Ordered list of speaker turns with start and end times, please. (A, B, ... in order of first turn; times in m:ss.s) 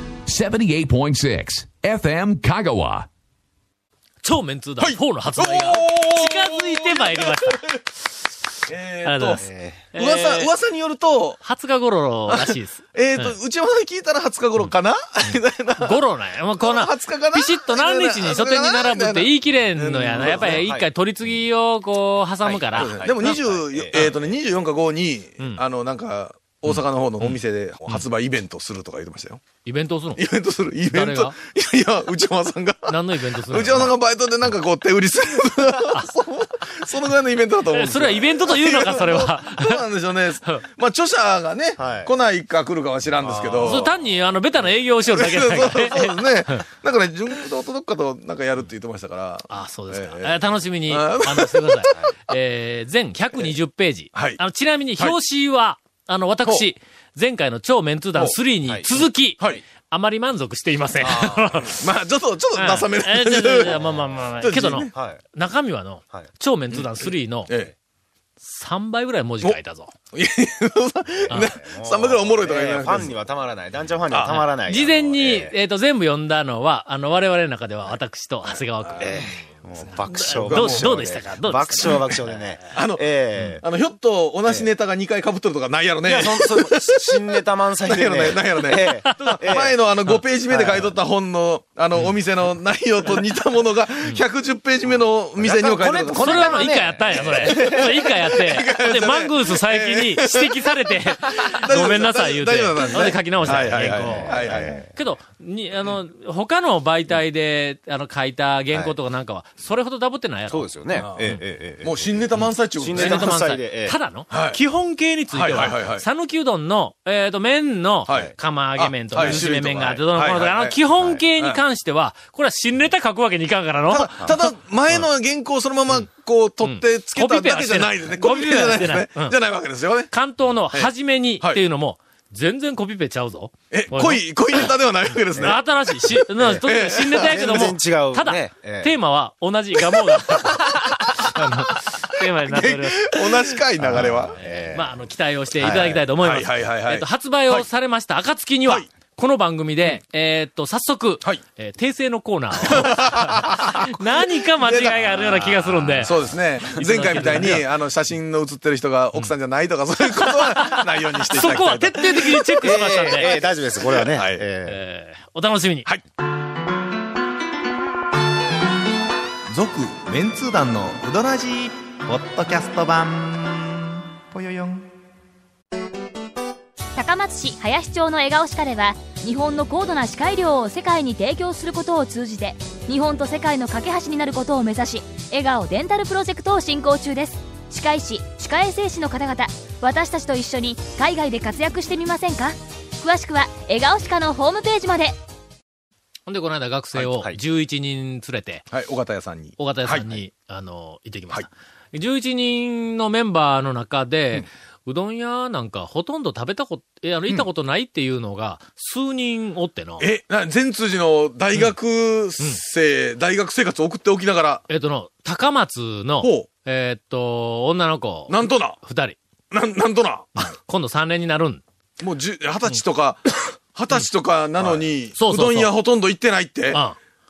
0:00.2-0:03.1 A
0:04.2-0:07.8 B
0:04.8-0:07.8 C
0:08.7-0:11.4 C
0:09.0-0:10.5 B
0:09.4-0:09.8 D
0:11.4-0:13.3 B
0:12.3-0:16.0 C
0:15.8-0:24.1 B
0:16.6-0:20.6 C
0:20.3-0:20.9 D
0:22.4-0:24.0 D
0:22.7-0:29.4 C
0:26.7-0:27.4 B
0:29.6-0:30.2 B
0:30.2-0:33.0 C
0:30.9-0:31.3 B
0:32.9-0:33.9 B
0:33.5-0:43.9 C
0:37.7-0:39.8 B
0:41.8-0:42.1 D
0:43.2-0:43.8 D
0:43.6-0:46.6 B
0:45.1-0:52.0 C
0:49.5-1:01.8 B
1:01.0-1:03.8 C
1:02.6-1:07.5 B
1:03.7-1:04.1 D
1:04.4-1:04.9 C
1:04.9-1:05.2 D
1:06.7-1:07.7 C
1:08.4-1:09.9 B
1:10.1-1:13.1 C
1:11.3-1:15.5 D
1:14.1-1:14.4 C
1:14.2-1:19.4 B
1:18.9-1:23.6 D
1:20.1-1:22.1 B
1:20.2-1:21.0 C
1:22.7-1:27.2 C
1:26.0-1:29.8 D
1:27.8-1:40.7 C
1:29.0-1:29.4 B
1:30.5-1:30.9 D
1:35.4-1:38.2 D
1:36.2-1:51.4 B
1:41.3-1:44.8 C
1:44.0-1:44.9 D
1:50.5-1:52.1 D
1:51.0-1:53.3 C
1:52.8-1:54.0 D
1:52.9-2:04.4 B
1:54.3-1:54.6 C
1:55.3-1:56.0 C
1:58.1-2:00.8 C
1:59.2-2:00.0 D
2:03.9-2:10.1 C
2:06.6-2:09.3 B
2:10.1-2:14.2 B
2:13.7-2:17.7 C
2:15.4-2:37.7 B
2:17.2-2:18.9 D
2:22.5-2:24.3 C
2:23.8-2:24.9 D
2:25.6-2:26.0 D
2:26.2-2:27.6 C
2:32.6-2:34.0 C
2:34.6-2:35.4 C
2:35.5-2:36.2 D
2:36.0-2:42.6 C
2:40.2-2:43.4 B
2:42.6-2:44.8 D
2:43.9-2:44.4 C
2:44.6-2:45.9 B
2:49.6-2:54.8 E
2:49.6-2:53.2 C
2:57.0-3:15.2 F
3:16.3-3:18.7 B
3:17.1-3:17.4 D
3:18.7-3:20.2 C
3:19.6-3:30.0 B
3:30.0-3:34.6 C
3:34.7-3:39.2 B
3:36.2-3:36.5 C
3:38.3-3:38.8 C
3:39.5-3:40.5 C
3:40.4-3:41.6 B
3:42.0-3:46.8 C
3:44.6-3:45.7 B
3:46.7-3:47.0 B